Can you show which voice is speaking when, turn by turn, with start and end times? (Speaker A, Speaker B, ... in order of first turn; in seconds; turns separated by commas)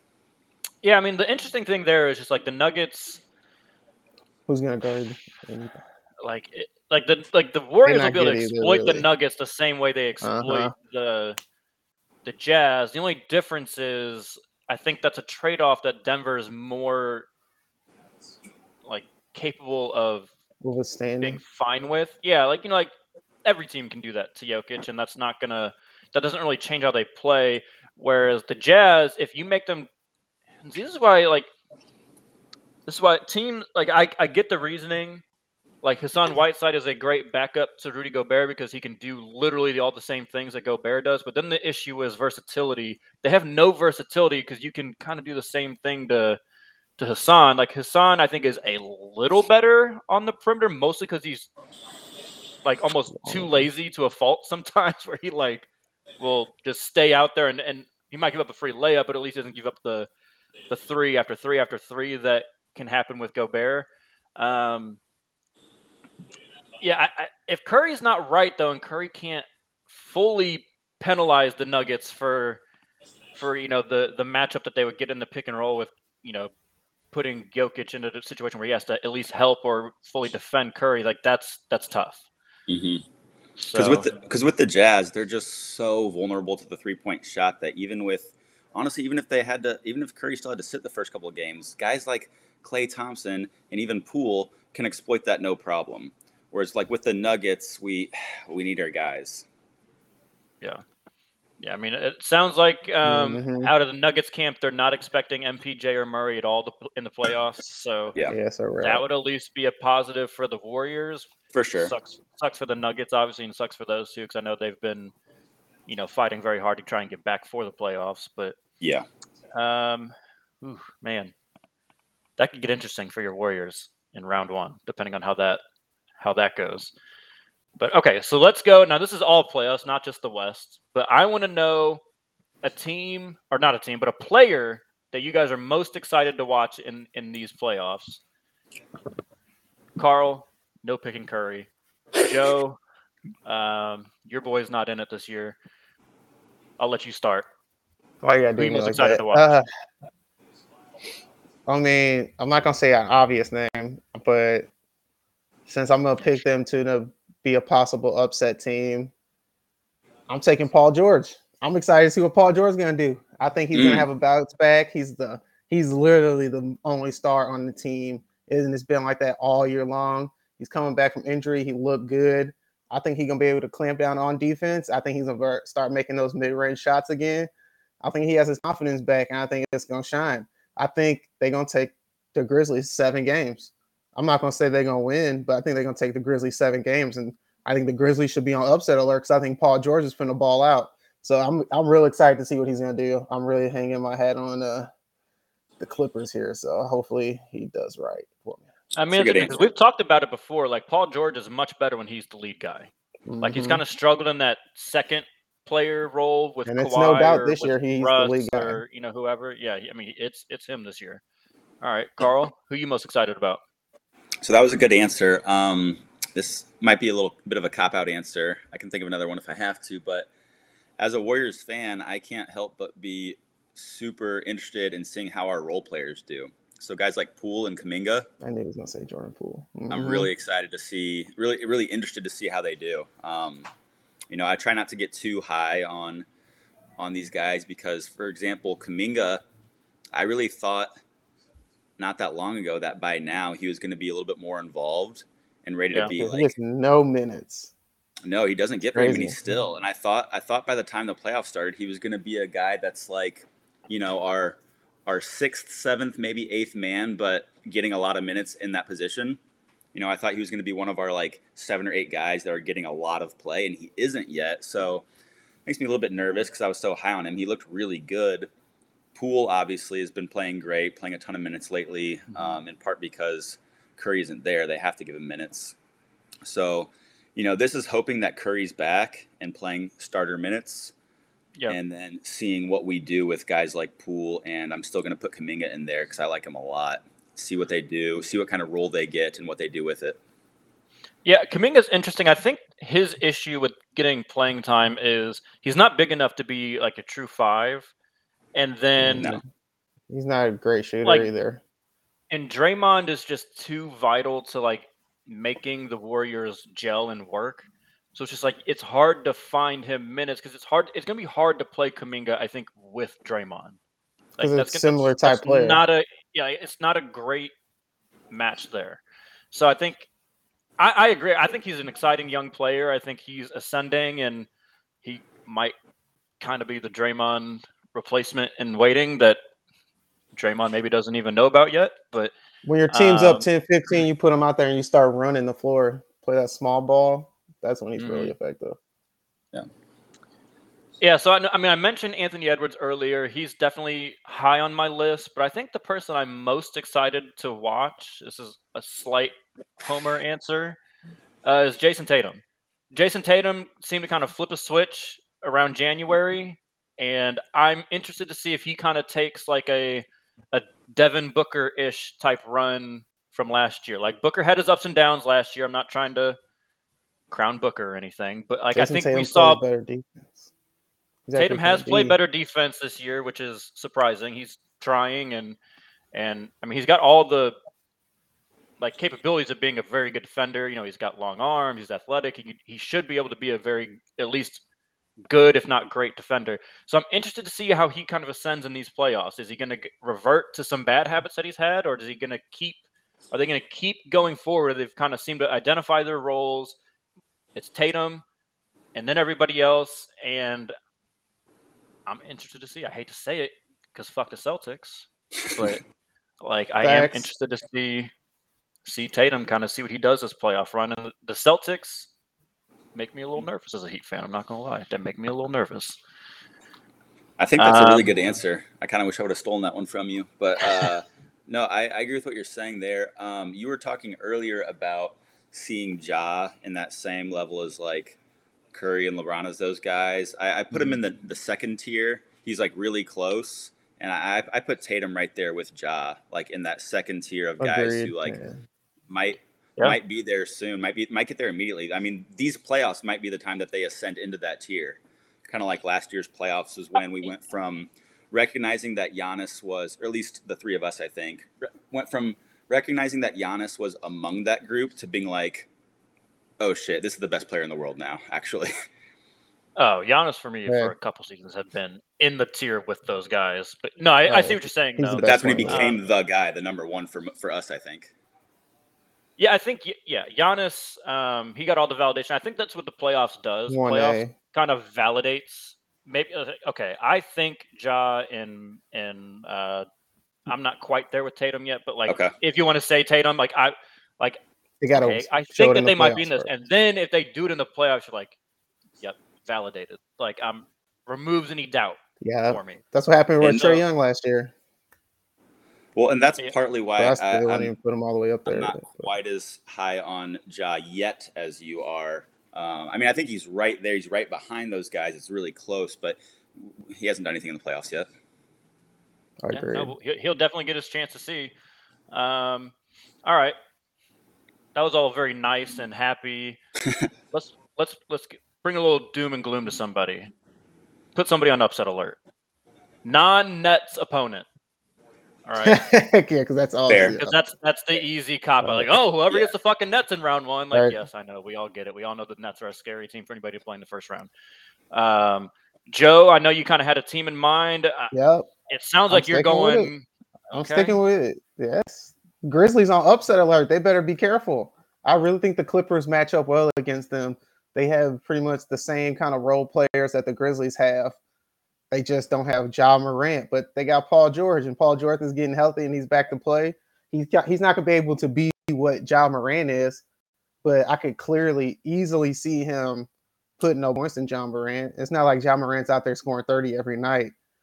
Speaker A: 0.8-3.2, Speaker B: 4.5-5.8, Speaker A: 6.2-11.4, Speaker B: 7.8-9.0, Speaker B: 10.2-10.7, Speaker A: 12.2-17.3, Speaker A: 18.8-20.3, Speaker B: 20.6-21.4, Speaker A: 21.2-22.9, Speaker A: 23.4-29.9, Speaker A: 30.6-31.5, Speaker A: 32.9-35.2, Speaker A: 35.8-46.4, Speaker A: 47.0-51.5, Speaker A: 52.6-55.7, Speaker B: 53.1-53.7, Speaker A: 56.2-60.1, Speaker A: 60.7-65.0, Speaker A: 66.8-72.6, Speaker A: 73.3-76.5, Speaker A: 77.1-82.2, Speaker C: 82.7-83.0, Speaker A: 83.6-84.1, Speaker C: 83.7-99.5, Speaker A: 101.6-108.2, Speaker B: 103.0-103.7, Speaker B: 108.3-109.0, Speaker A: 108.8-115.1, Speaker C: 111.5-111.9, Speaker A: 115.9-118.6, Speaker C: 118.8-119.0, Speaker A: 119.5-121.3, Speaker A: 122.4-125.6, Speaker A: 126.2-126.9, Speaker A: 127.8-132.0, Speaker A: 132.6-138.2, Speaker A: 140.0-142.8, Speaker A: 143.4-145.6, Speaker A: 146.8-147.5, Speaker B: 148.2-149.6, Speaker A: 148.6-149.6, Speaker B: 151.7-154.7, Speaker B: 155.7-159.1, Speaker B: 160.3-177.5, Speaker C: 163.7-164.1, Speaker B: 178.0-194.9, Speaker B: 195.8-198.6, Speaker A: 198.9-202.9, Speaker C: 199.1-199.6, Speaker B: 203.2-203.8, Speaker A: 203.4-211.2, Speaker B: 206.7-208.8, Speaker A: 211.8-213.6, Speaker C: 214.4-220.3, Speaker C: 221.0-228.3, Speaker B: 228.4-230.3, Speaker C: 229.9-233.7, Speaker C: 234.3-236.2, Speaker C: 237.0-239.4, Speaker C: 240.1-240.9, Speaker C: 242.0-246.5, Speaker B: 246.1-247.7, Speaker C: 248.2-259.4, Speaker B: 248.9-249.3, Speaker C: 259.9-265.0, Speaker C: 265.6-268.5, Speaker C: 269.1-275.7, Speaker C: 276.4-280.9, Speaker C: 281.7-290.2, Speaker A: 291.2-297.9, Speaker A: 298.5-299.4, Speaker B: 299.0-299.4, Speaker B: 300.1-301.6, Speaker A: 301.0-301.3, Speaker A: 302.3-313.8, Speaker A: 314.4-317.5, Speaker B: 314.4-315.8, Speaker A: 318.3-320.1, Speaker A: 320.8-324.5, Speaker A: 325.0-325.7, Speaker A: 326.4-329.4, Speaker A: 330.4-332.3, Speaker B: 332.6-338.8, Speaker A: 332.9-333.4, Speaker A: 338.0-338.3, Speaker A: 341.0-350.8, Speaker A: 351.4-352.4, Speaker A: 352.9-366.4, Speaker A: 367.3-369.6, Speaker B: 368.7-370.5, Speaker B: 371.3-372.2, Speaker A: 371.3-375.6, Speaker A: 376.1-377.6, Speaker A: 378.8-384.6, Speaker A: 385.3-392.8, Speaker A: 393.3-396.8, Speaker A: 397.5-398.2, Speaker A: 398.9-400.7, Speaker A: 402.1-405.8, Speaker A: 406.4-408.1, Speaker B: 406.8-407.3, Speaker A: 408.8-412.1, Speaker A: 412.9-416.0, Speaker C: 417.4-428.2, Speaker A: 417.6-418.1, Speaker C: 428.7-438.4, Speaker B: 437.6-438.6, Speaker C: 439.1-455.7, Speaker C: 456.6-458.7, Speaker A: 459.8-466.0, Speaker B: 460.7-460.9, Speaker B: 464.2-465.9, Speaker C: 465.2-468.1, Speaker A: 469.4-479.9, Speaker B: 473.7-474.3, Speaker A: 480.5-484.4, Speaker C: 482.1-482.3, Speaker B: 484.8-486.5, Speaker A: 484.9-488.3, Speaker A: 489.0-492.8, Speaker B: 492.2-494.5, Speaker C: 493.4-493.8, Speaker A: 493.4-493.8, Speaker C: 495.9-497.7, Speaker B: 497.0-499.1, Speaker C: 498.4-508.1, Speaker B: 509.4-509.9, Speaker A: 509.5-511.5, Speaker A: 512.1-512.7, Speaker A: 513.2-513.5, Speaker A: 514.8-516.6, Speaker A: 517.3-520.3, Speaker A: 521.1-522.2, Speaker A: 523.0-524.5, Speaker A: 525.5-525.8, Speaker B: 525.6-527.4, Speaker C: 526.9-527.1, Speaker A: 527.0-534.3, Speaker B: 528.6-528.9, Speaker B: 530.7-531.0, Speaker A: 534.9-538.1, Speaker B: 538.1-538.5, Speaker A: 538.7-541.0, Speaker B: 539.1-539.9, Speaker B: 540.5-551.2, Speaker B: 551.9-560.0, Speaker B: 560.6-563.1, Speaker B: 563.6-567.3